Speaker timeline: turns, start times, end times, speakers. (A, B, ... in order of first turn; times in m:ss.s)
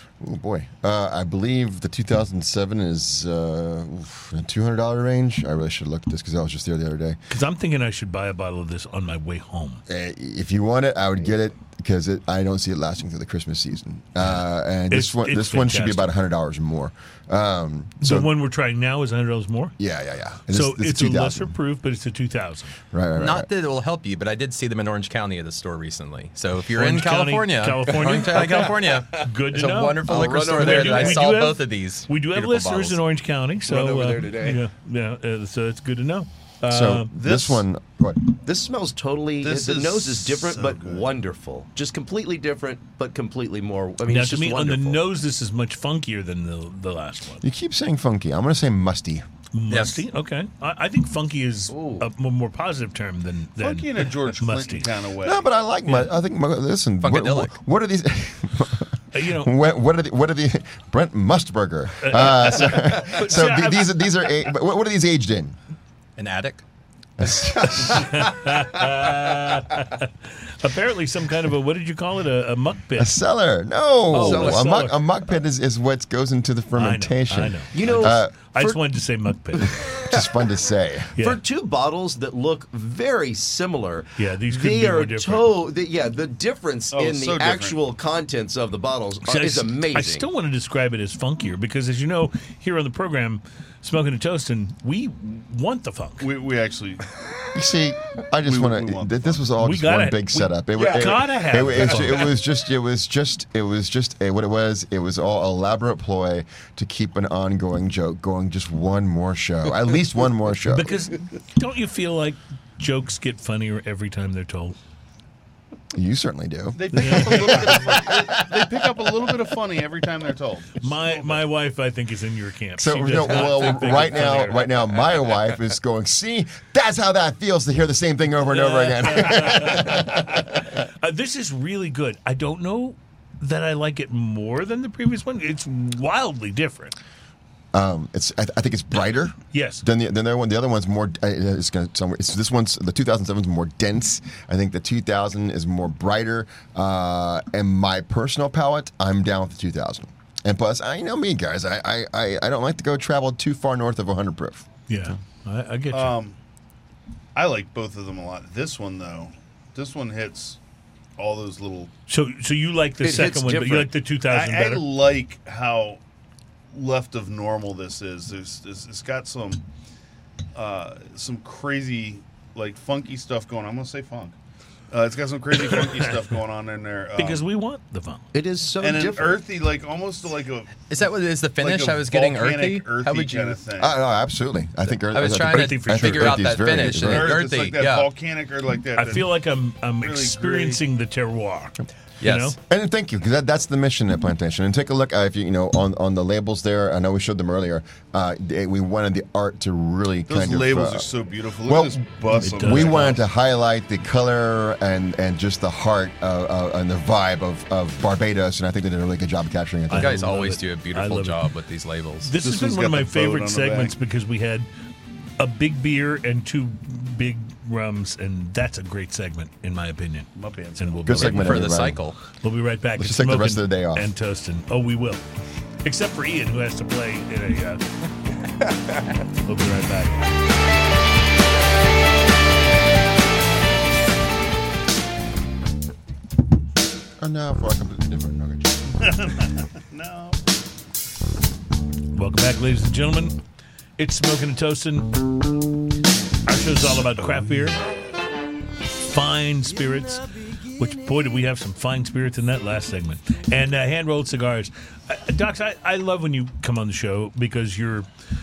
0:00.2-0:07.2 A
0:07.3-0:09.8 B
0:09.9-0:18.3 A
0:14.9-0:16.1 B
0:18.0-0:19.7 B
0:19.8-0:21.5 A
0:20.5-0:22.7 B
0:22.9-0:23.5 A
0:23.1-0:33.0 C
0:26.7-0:37.1 B
0:30.1-0:31.3 D
0:33.6-0:34.6 D
0:36.7-0:38.2 A
0:37.1-0:37.6 E
0:38.4-0:45.0 D
0:39.4-0:41.1 E
0:44.0-0:47.4 B
0:47.4-0:49.2 A
0:49.5-0:54.9 B
0:49.7-0:50.0 C
0:51.7-0:52.1 D
0:53.6-0:55.5 E
0:55.2-1:05.6 A
0:55.8-0:56.1 B
0:57.0-0:57.5 C
0:59.1-0:59.5 B
1:02.0-1:04.0 B
1:06.2-1:06.6 C
1:07.2-1:08.3 A
1:07.6-1:13.1 B
1:13.0-1:18.3 A
1:14.1-1:15.0 B
1:14.1-1:14.7 D
1:16.8-1:19.9 B
1:17.7-1:18.8 D
1:19.9-1:21.1 A
1:19.9-1:20.4 D
1:21.2-1:30.3 D
1:24.2-1:25.5 B
1:26.9-1:27.8 E
1:29.2-1:36.3 B
1:36.2-1:37.1 E
1:37.5-1:51.0 A
1:38.4-1:39.4 E
1:39.6-1:42.3 B
1:40.8-1:41.2 D
1:50.7-1:54.8 B
1:55.9-1:58.7 A
1:56.7-2:01.4 E
1:56.9-1:57.8 B
2:00.8-2:04.7 B
2:02.8-2:10.8 A
2:08.5-2:17.0 B
2:17.7-2:34.6 A
2:19.5-2:19.8 B
2:34.9-2:36.1 B
2:35.9-2:36.4 E
2:37.3-2:40.6 E
2:41.2-2:41.9 E
2:42.1-2:44.8 B
2:43.0-2:43.9 D
2:44.2-2:46.0 E
2:46.7-2:49.6 E
2:50.5-2:54.3 E
2:54.9-2:57.4 E
2:55.6-2:56.1 B
2:57.2-2:58.2 B
2:58.3-2:59.4 D
2:58.8-3:00.8 E
3:00.9-3:03.6 C
3:01.6-3:04.0 E
3:03.8-3:07.4 A
3:05.1-3:08.1 C
3:05.5-3:06.6 B
3:06.8-3:09.3 E
3:09.0-3:12.6 B
3:10.0-3:10.8 E
3:12.2-3:12.6 C
3:12.6-3:21.1 A
3:20.3-3:23.2 E
3:21.6-3:30.3 A
3:22.4-3:23.2 B
3:29.9-3:31.4 B
3:29.9-3:32.3 C
3:32.2-3:34.7 B
3:32.4-3:33.9 E
3:35.4-3:41.8 B
3:40.3-3:41.3 E
3:41.0-3:42.0 A
3:41.3-3:42.2 C
3:42.4-3:45.2 B
3:43.0-3:44.1 A
3:45.8-3:47.8 B
3:49.4-3:50.3 B
3:57.2-3:58.8 A
3:59.0-4:00.4 E
4:02.1-4:03.4 B
4:04.0-4:05.3 B
4:06.4-4:07.8 B
4:09.0-4:18.1 B